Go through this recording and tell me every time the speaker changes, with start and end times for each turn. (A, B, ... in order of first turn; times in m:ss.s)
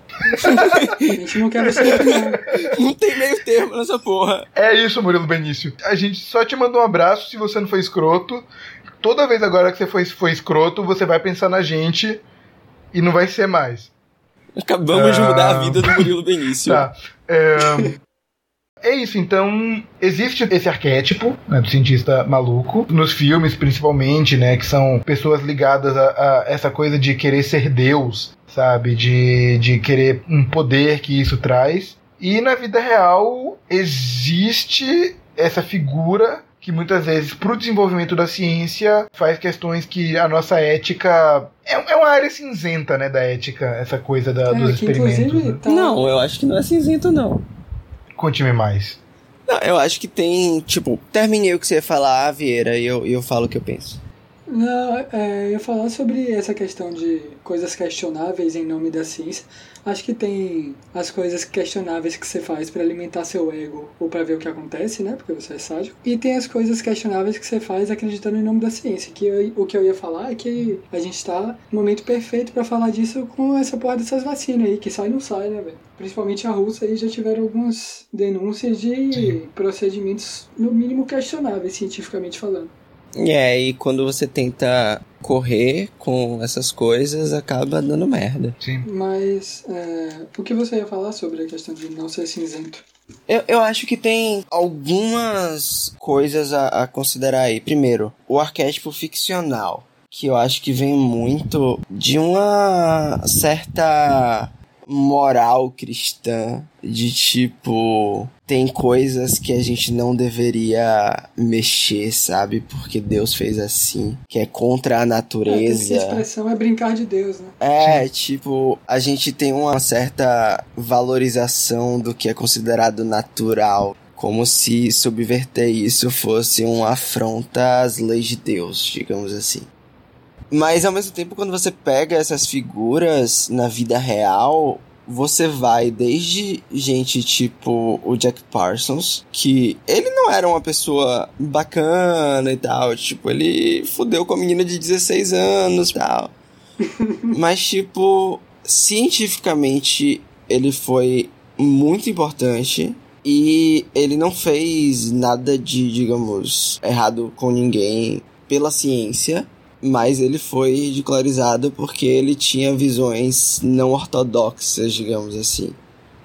0:00.3-0:01.0 A
0:00.4-0:02.4 B
0:00.4-0:01.2 C
0:01.7-0:02.7 A
0:01.8-0:04.5 C
0:04.6-0:08.5 A
0:09.0-0:12.2 A
0:12.9-0:13.9 A
0:14.6-0:16.8 C
0:14.9-0:16.1 A
0:16.6-0:18.0 A
0:18.8-0:45.6 A
0:44.5-0:46.2 B
0:45.7-0:47.4 C
0:48.2-0:49.0 A
0:49.5-0:54.0 C
0:54.5-1:22.7 B
1:19.1-1:19.4 A
1:23.2-1:28.6 C
1:28.6-1:28.9 A
1:28.8-1:32.8 B
1:33.3-1:56.2 C
1:55.5-1:57.6 B
1:57.6-2:09.7 C
1:57.8-1:58.1 A
2:10.5-2:26.3 C
2:26.8-2:27.3 B
2:27.3-2:45.8 C